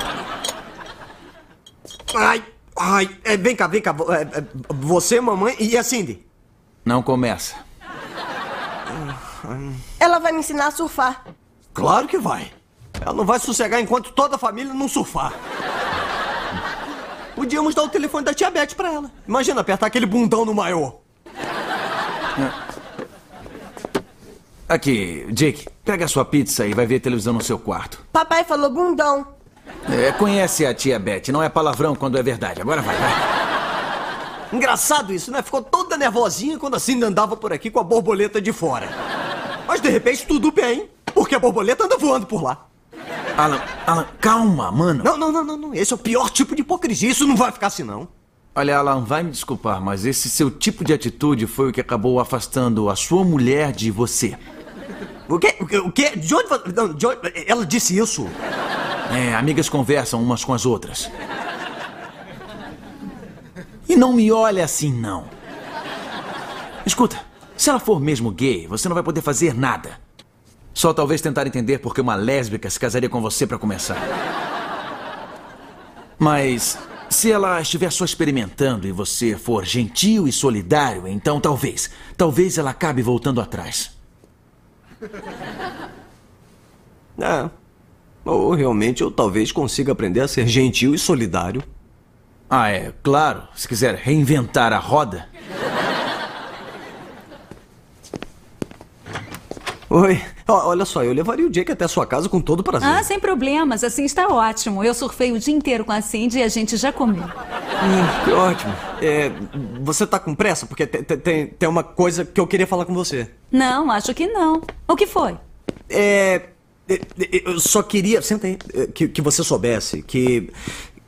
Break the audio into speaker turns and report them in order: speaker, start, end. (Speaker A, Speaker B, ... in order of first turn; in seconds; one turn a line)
Speaker A: 2.1-6.2
Speaker B: 6.8-7.6
Speaker A: 9.0-9.8
Speaker C: 10.0-11.2
Speaker A: 11.7-15.4
Speaker A: 17.4-21.0
Speaker B: 24.7-28.0
Speaker C: 28.1-29.3
Speaker B: 29.9-33.2
Speaker A: 34.5-39.0
Speaker A: 39.7-42.6
Speaker B: 43.4-45.1
Speaker A: 45.0-48.1
Speaker B: 48.5-54.4
Speaker A: 55.3-58.4
Speaker B: 59.1-61.1
Speaker B: 63.9-65.3
Speaker B: 66.8-70.0
Speaker B: 70.7-74.0
Speaker B: 76.2-83.9
Speaker A: 87.2-87.5
Speaker A: 88.2-91.6
Speaker B: 92.5-95.2
Speaker A: 99.9-103.0
Speaker D: 102.8-107.3
Speaker A: 107.8-113.3
Speaker D: 113.5-115.4
Speaker A: 115.9-120.5